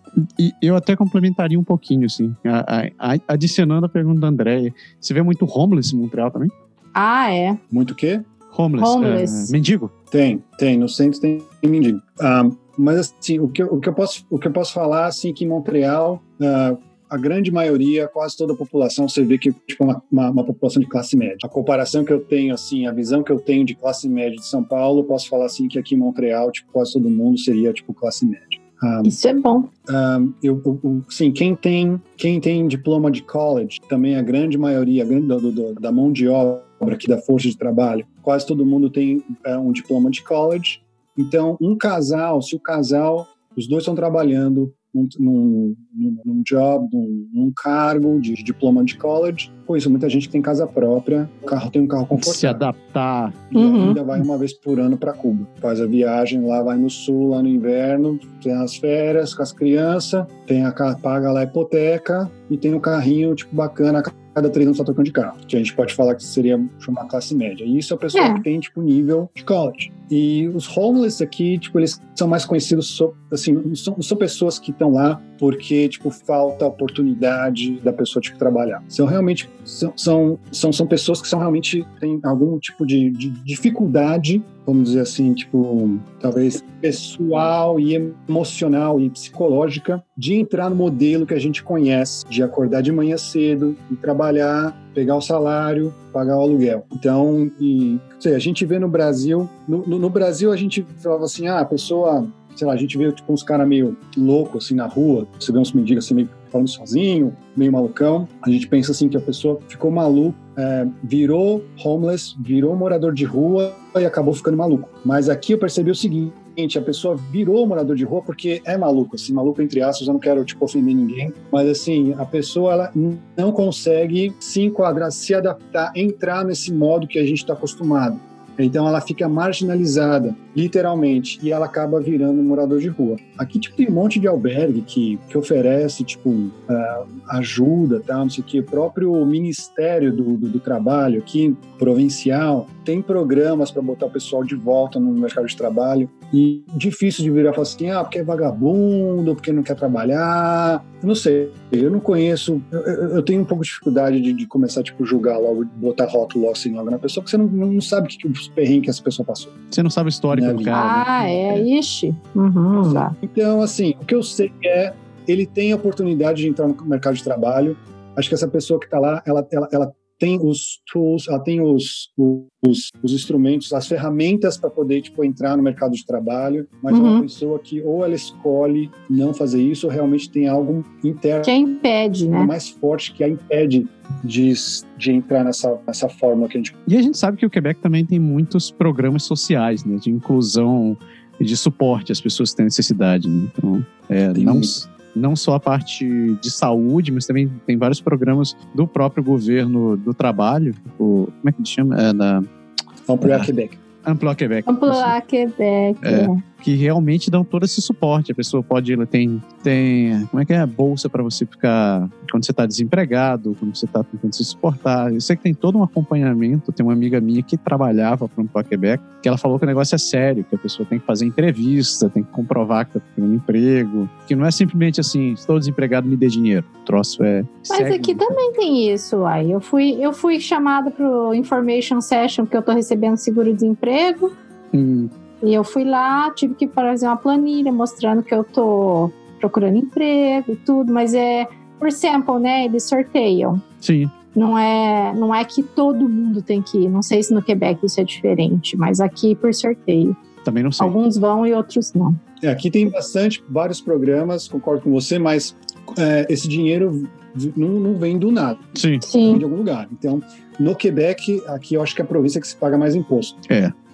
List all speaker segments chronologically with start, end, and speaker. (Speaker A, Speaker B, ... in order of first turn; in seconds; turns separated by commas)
Speaker A: 0.2-6.5, Speaker B: 7.0-7.6, Speaker C: 7.7-8.3, Speaker A: 8.5-9.9, Speaker B: 8.8-9.5, Speaker C: 10.1-29.1, Speaker B: 29.0-29.7, Speaker C: 29.9-52.6, Speaker A: 52.1-53.5, Speaker C: 53.5-159.6, Speaker B: 53.5-54.0, Speaker B: 68.1-68.4, Speaker A: 159.7-161.7, Speaker C: 160.3-160.8, Speaker B: 160.7-163.1, Speaker C: 162.9-181.6, Speaker B: 176.9-177.2, Speaker B: 181.4-182.5, Speaker C: 182.3-186.8, Speaker A: 186.9-202.5, Speaker C: 194.3-194.8, Speaker C: 203.1-203.8, Speaker A: 203.2-203.5, Speaker A: 204.1-205.2, Speaker B: 204.7-206.4, Speaker A: 206.0-228.4, Speaker B: 227.7-234.3, Speaker A: 234.7-235.1, Speaker B: 235.4-243.6, Speaker A: 243.8-244.1, Speaker B: 244.3-250.2, Speaker A: 250.4-251.0, Speaker B: 250.8-252.2, Speaker C: 252.4-258.7, Speaker A: 258.8-259.1, Speaker B: 259.0-259.4, Speaker C: 259.2-263.4, Speaker A: 263.5-263.7